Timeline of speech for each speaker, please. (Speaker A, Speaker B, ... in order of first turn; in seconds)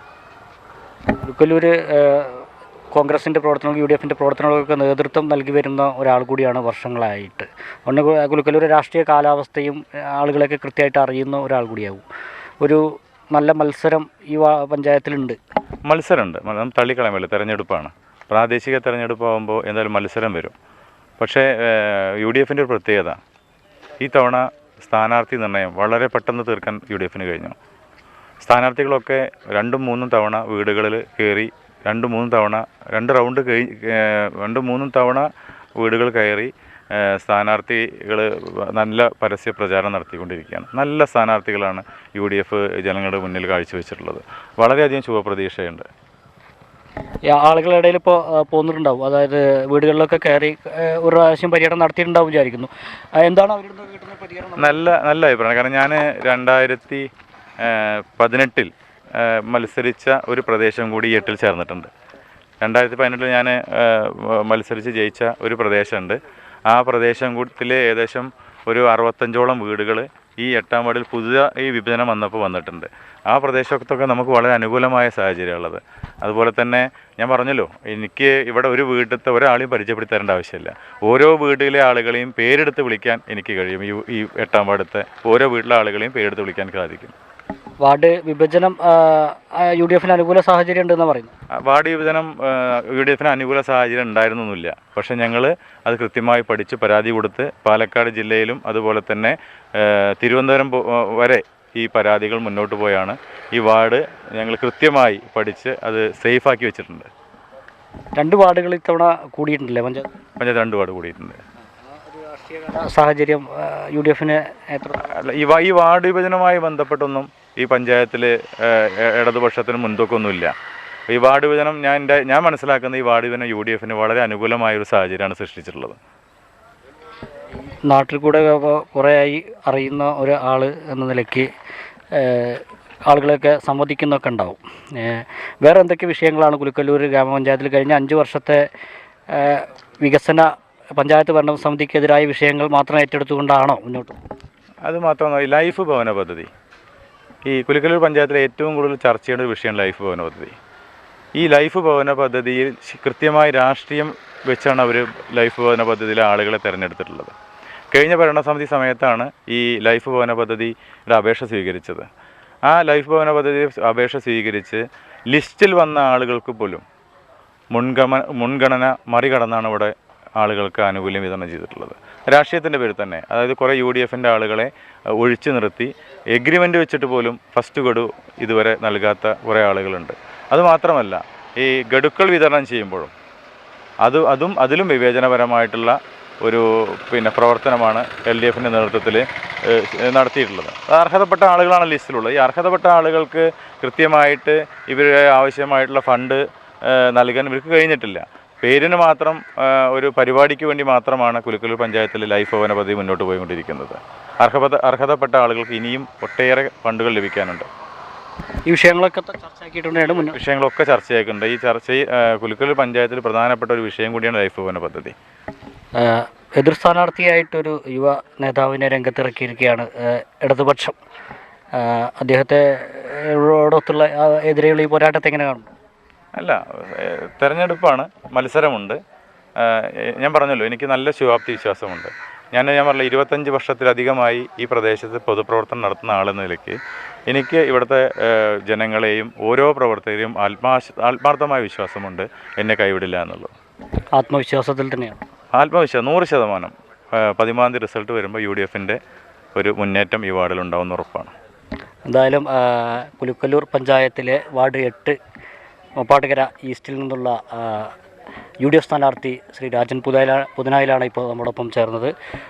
Speaker A: 1.2-12.0, 12.6-15.4, 47.3-54.8, 87.8-91.3, 108.2-110.2, 111.9-115.2, 127.9-131.5, 132.1-138.7, 139.3-144.2, 208.7-210.4, 216.0-221.0, 221.7-225.7, 244.2-245.2, 252.1-255.2, 256.0-257.9, 258.6-262.1
Speaker B: 15.9-20.6, 21.2-23.2, 24.0-27.6, 28.4-45.9, 54.6-57.1, 57.6-61.9, 62.6-87.2, 91.6-107.1, 110.4-111.4, 115.0-120.5, 121.1-126.0, 144.8-146.5, 147.5-150.6, 151.4-157.3, 157.9-162.1, 162.7-166.8, 167.7-183.1, 184.0-207.7, 210.3-215.2, 226.4-229.0, 229.6-236.8, 237.3-243.5, 245.6-249.0, 249.6-251.3